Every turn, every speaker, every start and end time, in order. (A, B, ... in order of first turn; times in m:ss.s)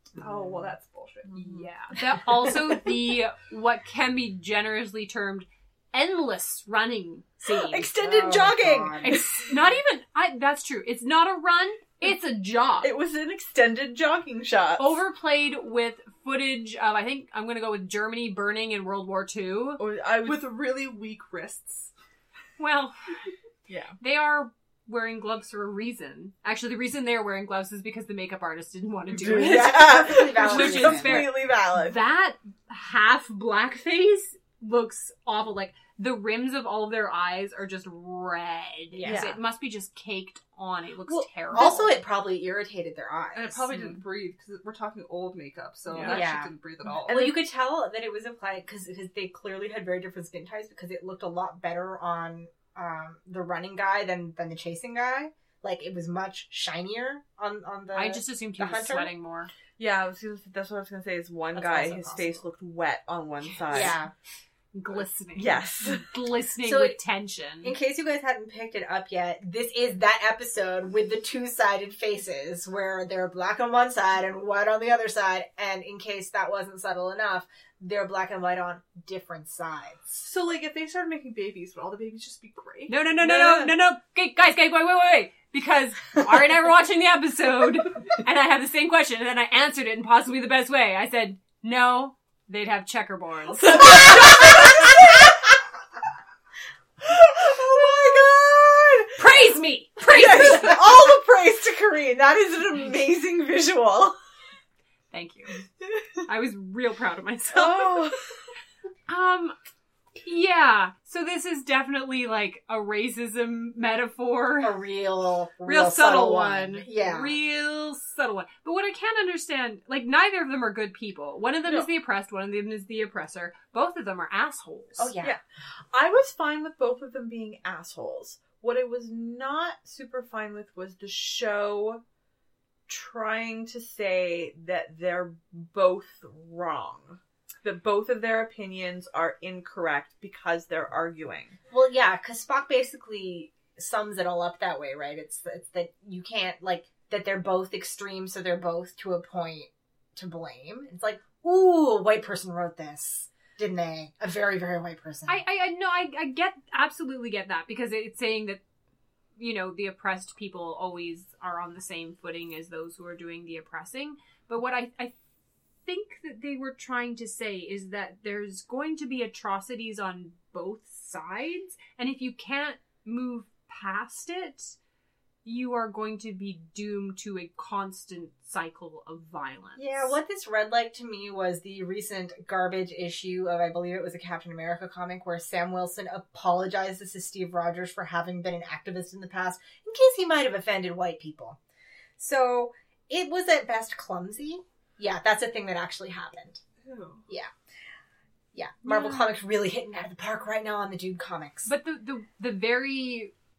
0:00.2-0:01.6 A
0:00.2-0:00.6 B
0:01.3-0:01.6 C
0:01.4-0:07.9 D
0:07.5-0:09.5 C
0:08.0-0:09.2 B
0:09.0-0:12.9 D
0:12.8-0:15.0 C
0:14.8-0:19.8 D
0:19.8-0:20.4 C
0:20.2-0:21.9 A
0:22.6-0:23.2 D
0:23.7-0:23.9 C
0:24.0-0:42.0 D
0:29.1-0:31.2 B
0:29.1-0:32.0 C
0:38.9-0:39.3 B
0:39.0-0:39.4 C
0:41.1-0:41.8 C
0:41.5-0:43.7 B
0:43.3-0:47.4 A
0:45.9-0:46.2 C
0:46.0-0:59.1 B
0:57.9-0:59.5 D
0:59.8-1:04.0 C
1:01.5-1:02.4 B
1:03.7-1:04.1 B
1:04.7-1:07.7 D
1:05.4-1:06.1 C
1:06.6-1:07.0 B
1:07.6-1:20.2 B
1:20.2-1:23.7 A
1:22.9-1:33.9 D
1:23.2-1:23.5 C
1:33.6-1:35.5 C
1:37.0-1:39.4 C
1:39.2-1:40.8 D
1:40.1-1:44.2 C
1:45.1-1:45.6 D
1:46.2-1:48.1 D
1:47.5-1:48.3 C
1:49.1-1:49.6 D
1:50.2-1:54.7 D
1:54.6-1:57.4 B
1:55.6-2:05.1 D
2:05.0-2:05.4 B
2:05.9-2:12.0 C
2:12.9-2:21.6 C
2:21.7-2:35.4 B
2:35.2-2:38.6 D
2:39.4-2:45.1 D
2:45.8-2:54.8 D
2:55.4-3:00.1 D
2:59.8-3:11.6 B
3:12.2-3:16.6 B
3:16.8-3:17.2 A
3:18.5-3:21.7 B
3:18.8-3:19.3 D
3:21.6-3:23.3 D